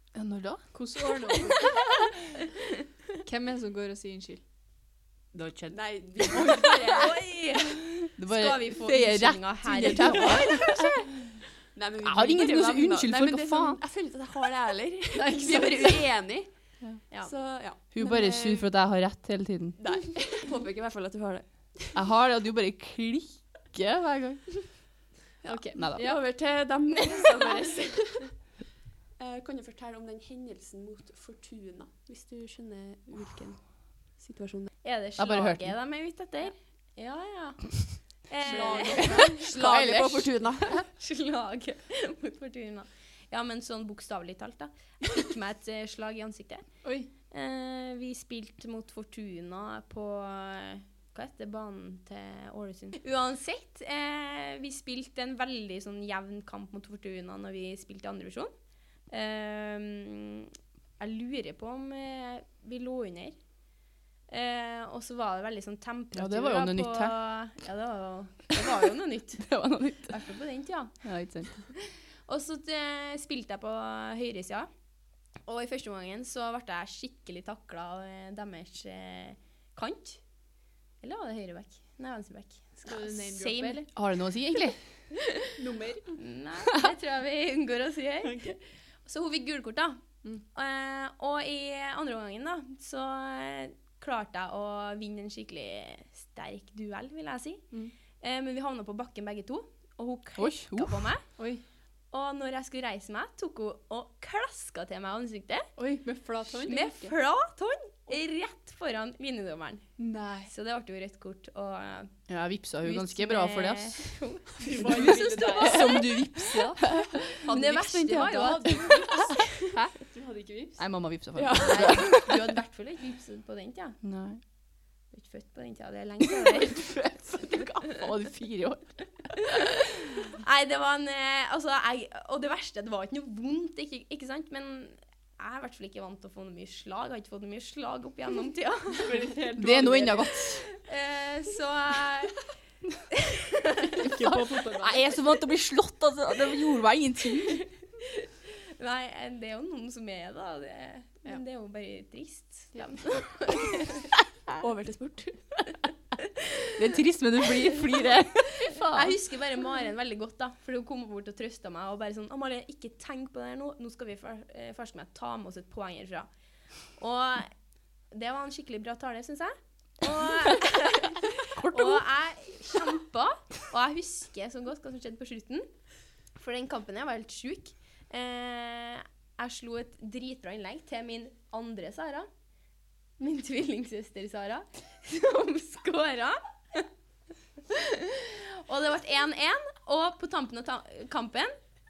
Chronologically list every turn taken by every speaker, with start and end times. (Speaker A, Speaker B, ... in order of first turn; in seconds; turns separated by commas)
Speaker A: 0.1-0.7, Speaker B: 0.7-1.9, Speaker B: 3.2-4.4, Speaker A: 5.3-6.5, Speaker C: 5.7-7.2, Speaker D: 6.6-10.9, Speaker A: 8.2-10.9, Speaker C: 10.2-11.0, Speaker C: 11.7-16.5, Speaker A: 12.1-13.8, Speaker B: 15.2-16.0, Speaker C: 17.1-18.7, Speaker A: 17.9-19.8, Speaker C: 19.8-22.0, Speaker A: 21.9-24.9, Speaker B: 25.4-26.2, Speaker A: 25.5-26.3, Speaker C: 25.5-28.4, Speaker C: 29.2-34.7, Speaker D: 34.8-39.5, Speaker A: 35.2-35.7, Speaker C: 38.4-40.9, Speaker B: 38.4-39.4, Speaker A: 38.9-40.8, Speaker D: 40.9-46.7, Speaker B: 46.8-47.1, Speaker D: 47.3-58.5, Speaker D: 59.1-63.4, Speaker D: 64.3-71.0, Speaker A: 66.1-67.2, Speaker A: 69.4-70.2, Speaker A: 71.0-71.6, Speaker D: 71.8-74.7, Speaker D: 75.5-80.2, Speaker D: 81.0-83.8, Speaker B: 82.8-83.9, Speaker A: 83.9-84.9, Speaker B: 85.5-86.1, Speaker D: 86.2-97.6, Speaker B: 88.2-88.5, Speaker D: 98.2-101.2, Speaker A: 100.4-101.1, Speaker B: 101.4-101.6, Speaker D: 102.1-105.7, Speaker B: 105.8-107.1, Speaker D: 106.6-109.8, Speaker B: 110.0-110.5, Speaker D: 110.5-112.3, Speaker A: 112.3-114.2, Speaker D: 112.8-116.1, Speaker B: 114.6-116.0, Speaker A: 115.6-117.4, Speaker C: 117.4-119.4, Speaker D: 117.5-119.4, Speaker A: 118.2-118.8, Speaker A: 119.7-120.0, Speaker B: 120.0-120.8, Speaker A: 120.8-122.3, Speaker C: 121.3-122.2, Speaker D: 121.6-124.0, Speaker A: 124.0-124.4, Speaker D: 125.1-127.0, Speaker A: 126.6-129.4, Speaker D: 130.4-139.3, Speaker B: 138.9-140.5, Speaker A: 139.6-140.7, Speaker D: 140.7-142.4, Speaker D: 143.2-144.1, Speaker B: 144.0-145.2, Speaker A: 144.0-147.7, Speaker D: 148.4-154.0, Speaker C: 154.6-155.4, Speaker A: 156.7-159.2, Speaker D: 158.8-166.3, Speaker D: 167.0-167.5, Speaker D: 168.1-175.7, Speaker A: 171.5-172.1, Speaker D: 176.3-182.3, Speaker D: 183.2-186.9, Speaker D: 187.7-191.6